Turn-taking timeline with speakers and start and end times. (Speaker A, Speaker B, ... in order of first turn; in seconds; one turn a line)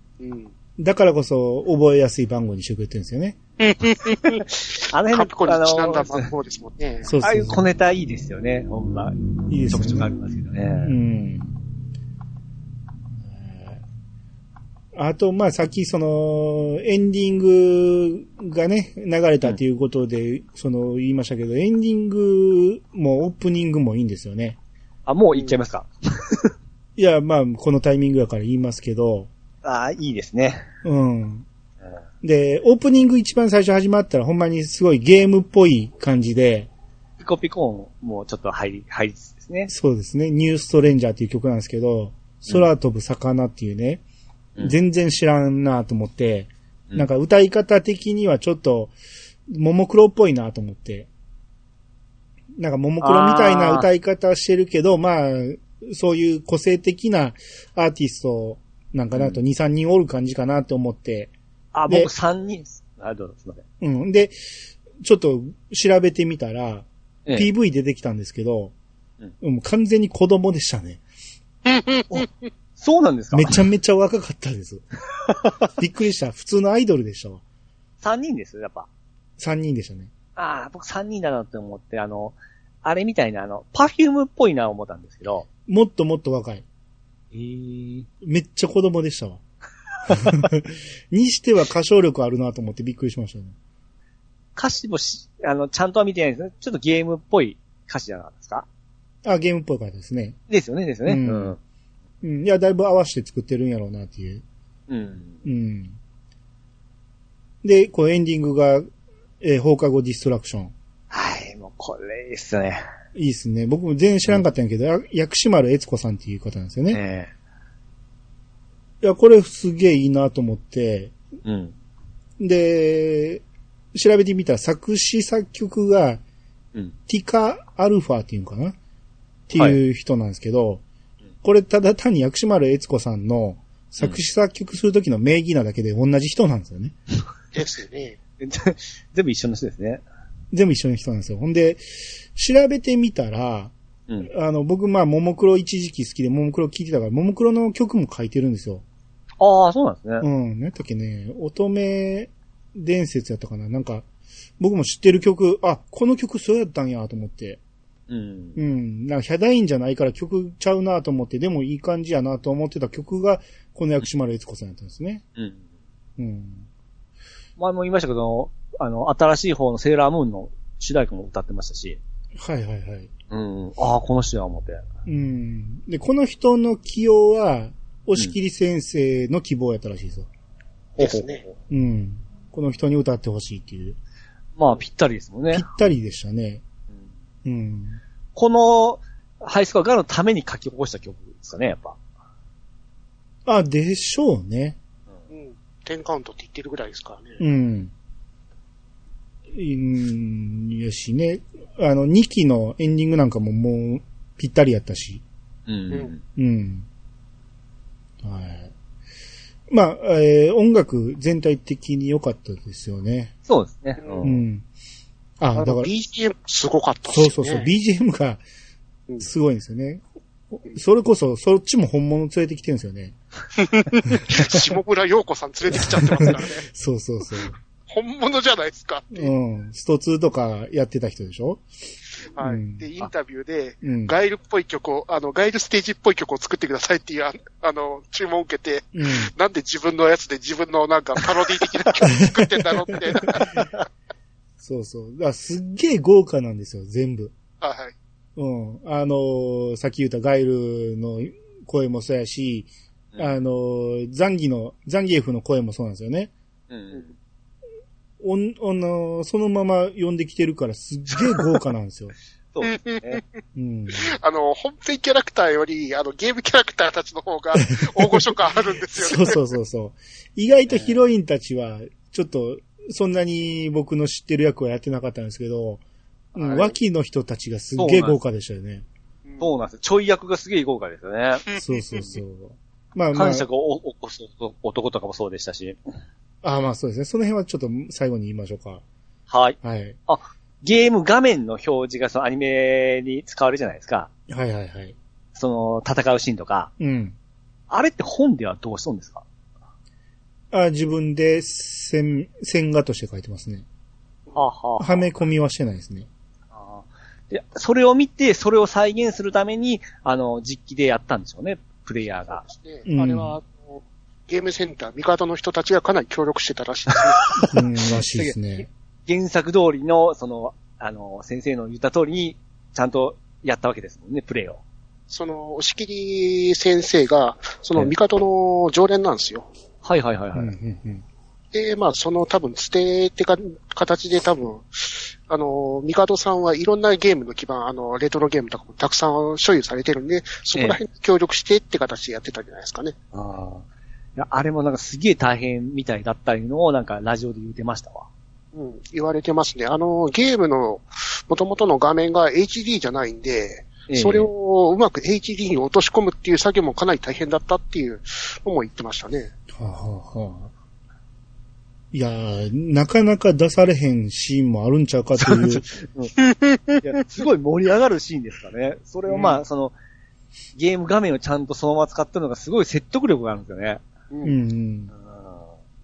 Speaker A: 0.2-0.5
Speaker B: 0.8-3.4
Speaker A: 3.6-7.1
Speaker C: 4.6-6.3
Speaker B: 7.0-7.6
Speaker C: 7.2-10.9
Speaker B: 9.5-10.1
Speaker B: 10.8-11.6
Speaker B: 13.2-13.8
Speaker B: 14.9-24.6
Speaker C: 25.1-26.5
Speaker B: 26.9-29.3
Speaker C: 29.6-30.6
Speaker B: 30.8-31.4
Speaker B: 32.2-36.7
Speaker C: 37.2-39.7
Speaker B: 39.7-44.0
Speaker B: 44.6-48.9
Speaker B: 49.5-51.1
Speaker B: 52.6-61.3
Speaker C: 53.0-53.9
Speaker C: 59.1-59.4
Speaker C: 61.7-63.6
Speaker B: 63.8-64.3
Speaker B: 65.0-68.7
Speaker B: 69.4-71.0
Speaker C: 72.1-73.6
Speaker B: 73.3-74.8
Speaker C: 75.2-75.5
Speaker B: 75.8-77.4
Speaker C: 78.0-78.9
Speaker B: 79.4-80.1
Speaker C: 80.3-85.5
Speaker B: 85.7-86.6
Speaker C: 87.3-88.1
Speaker B: 88.2-89.4
Speaker B: 90.1-93.5
Speaker C: 94.5-98.7
Speaker B: 99.2-100.4
Speaker C: 100.5-101.6
Speaker B: 101.0-101.5
Speaker B: 102.2-104.4
Speaker C: 104.9-105.4
Speaker B: 105.4-106.0
Speaker B: 107.6-108.8
Speaker B: 109.4-110.7
Speaker C: 111.1-112.8
Speaker B: 113.1-117.0
Speaker C: 116.9-117.3
Speaker B: 119.0-121.1
Speaker C: 121.4-121.7
Speaker B: 122.4-123.4
Speaker B: 123.9-126.2
Speaker B: 127.1-128.8
Speaker B: 129.5-130.8
Speaker C: 129.5-129.8
Speaker B: 131.4-136.9
Speaker A: 137.5-138.2
Speaker C: 138.4-140.0
Speaker B: 140.5-141.8
Speaker B: 142.3-143.7
Speaker B: 144.3-148.8
Speaker C: 149.4-150.2
Speaker B: 150.2-154.1
Speaker B: 154.6-157.6
Speaker C: 158.1-158.6
Speaker B: 158.6-165.2
Speaker C: 165.3-165.6
Speaker B: 166.2-166.7
Speaker C: 167.6-172.0
Speaker B: 172.4-173.1
Speaker C: 173.3-174.8
Speaker B: 175.1-180.3
Speaker C: 181.0-181.5
Speaker A: 181.0-181.4
Speaker B: 181.7-184.0
Speaker C: 184.6-185.7
Speaker B: 185.5-186.6
Speaker B: 187.4-188.0
Speaker C: 188.3-192.0
Speaker B: 193.4-194.8
Speaker A: 195.3-197.4
Speaker B: 197.4-197.9
Speaker B: 199.5-205.2
Speaker C: 205.7-206.2
Speaker B: 206.3-206.8
Speaker B: 208.2-208.7
Speaker B: 209.7-213.3
Speaker C: 213.4-214.4
Speaker B: 214.2-214.6
Speaker B: 215.4-215.9
Speaker A: 215.6-217.7
Speaker B: 217.1-218.4
Speaker B: 219.2-220.0
Speaker B: 220.6-223.1
Speaker A: 223.6-226.6
Speaker B: 226.0-227.6
Speaker A: 227.9-229.3
Speaker B: 229.1-231.6
Speaker A: 232.3-243.6
Speaker B: 232.4-232.9
Speaker B: 233.8-234.1
Speaker B: 238.9-239.3
Speaker C: 243.3-243.8
Speaker B: 244.6-247.3
Speaker A: 247.6-247.9
Speaker B: 248.3-256.3
Speaker C: 256.7-257.1
Speaker B: 258.2-262.1
Speaker C: 262.5-263.2
Speaker A: 262.7-263.0
Speaker B: 263.6-264.1
Speaker A: 263.9-269.4
Speaker B: 267.8-268.3
Speaker B: 268.9-275.8
Speaker C: 270.7-270.9
Speaker A: 276.3-276.7
Speaker B: 276.3-278.9
Speaker C: 277.8-278.2
Speaker A: 279.2-279.5
Speaker C: 279.4-282.2
Speaker B: 281.5-283.4
Speaker C: 283.1-285.8
Speaker B: 286.4-288.8
Speaker C: 289.3-294.1
Speaker B: 289.6-290.0
Speaker B: 294.3-294.9
Speaker C: 295.4-296.7
Speaker B: 296.8-297.1
Speaker C: 297.7-299.2
Speaker B: 300.5-303.6
Speaker C: 304.3-305.1
Speaker B: 304.8-306.1
Speaker C: 306.5-312.4
Speaker A: 312.2-317.4
Speaker B: 312.9-313.4
Speaker C: 316.9-324.6
Speaker B: 317.5-318.7
Speaker A: 325.1-329.5
Speaker C: 329.8-330.5
Speaker B: 330.3-331.0
Speaker A: 331.5-342.9
Speaker C: 340.5-340.8
Speaker C: 343.1-343.6
Speaker C: 344.1-348.1
Speaker A: 348.5-359.3
Speaker C: 353.9-354.3
Speaker B: 359.5-360.5
Speaker B: 361.9-365.6
Speaker C: 365.2-366.1
Speaker A: 366.2-366.8
Speaker C: 366.8-369.8
Speaker C: 370.5-373.8
Speaker A: 374.1-374.4
Speaker B: 374.2-374.9
Speaker C: 374.9-375.5